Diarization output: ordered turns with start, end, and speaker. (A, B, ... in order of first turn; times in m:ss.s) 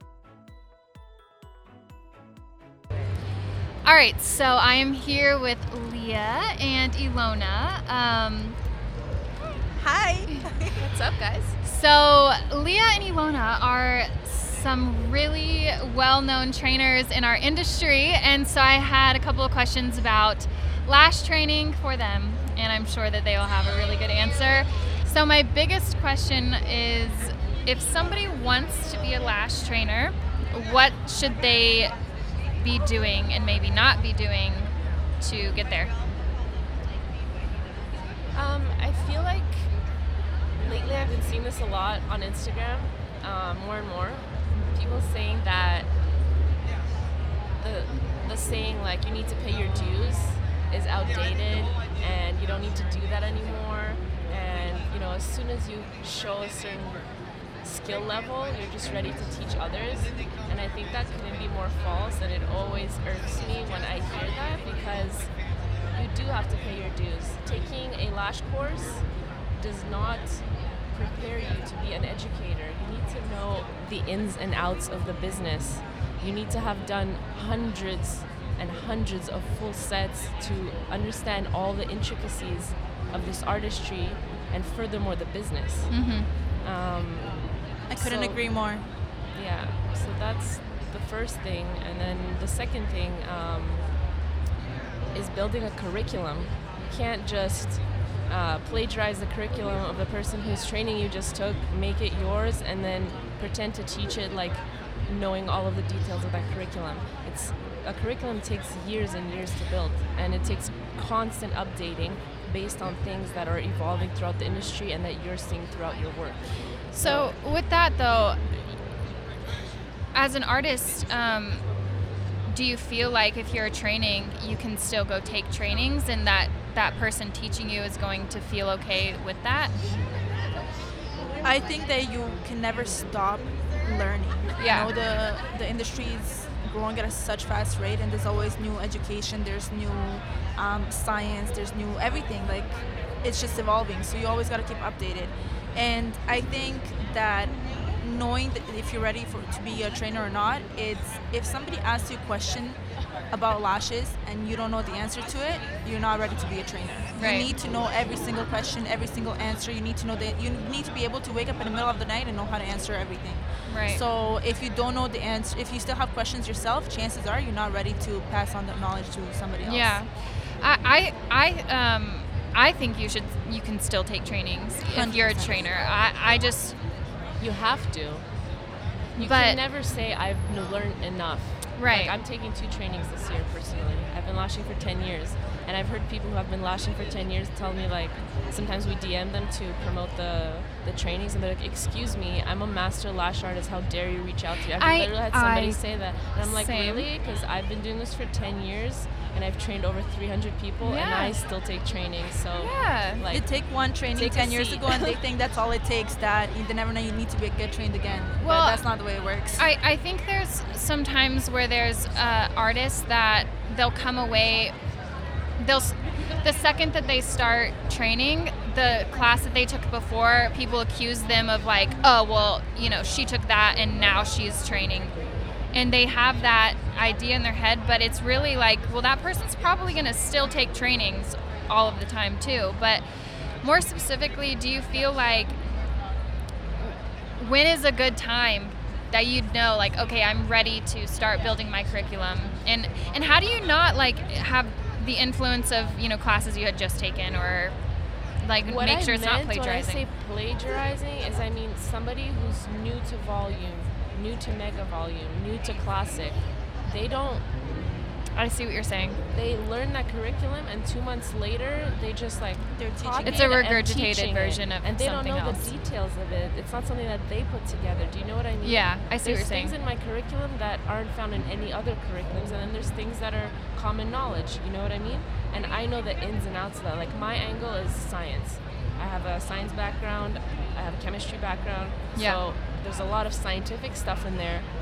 0:03.8-0:08.6 A
0:09.8-0:10.8 B
0:10.7-0:11.6 C
0:11.6-0:31.9 A
0:32.6-0:35.9 A
0:38.3-0:39.7 C
0:40.6-0:45.9 C
0:47.6-0:57.1 C
0:57.6-1:05.3 C
1:05.9-1:26.0 C
1:25.9-1:26.3 A
1:26.6-1:28.7 C
1:27.9-1:28.9 B
1:29.3-1:33.9 C
1:35.1-1:57.4 C
1:56.9-1:58.4 A
2:00.1-2:01.6 A
2:02.5-2:09.7 A
2:11.4-2:32.8 B
2:14.6-2:14.9 A
2:33.3-2:50.0 B
2:37.2-2:37.5 A
2:43.7-2:44.0 A
2:49.6-2:56.8 A
2:54.8-2:55.7 B
2:57.4-2:58.3 C
2:59.2-2:59.6 A
2:59.2-3:25.2 C
3:01.7-3:02.1 A
3:14.8-3:17.1 A
3:20.8-3:21.4 A
3:22.6-3:23.2 A
3:23.3-3:29.6 B
3:28.4-3:28.8 A
3:29.6-3:34.7 A
3:35.6-3:45.1 A
3:45.7-3:53.1 A
3:53.6-3:55.6 A
3:56.8-4:07.8 A
4:08.4-4:10.0 A
4:08.6-4:17.5 C
4:18.3-4:19.2 A
4:19.3-4:44.7 C
4:22.7-4:23.5 B
4:23.2-4:25.7 A
4:28.6-4:29.7 A
4:42.1-4:42.4 A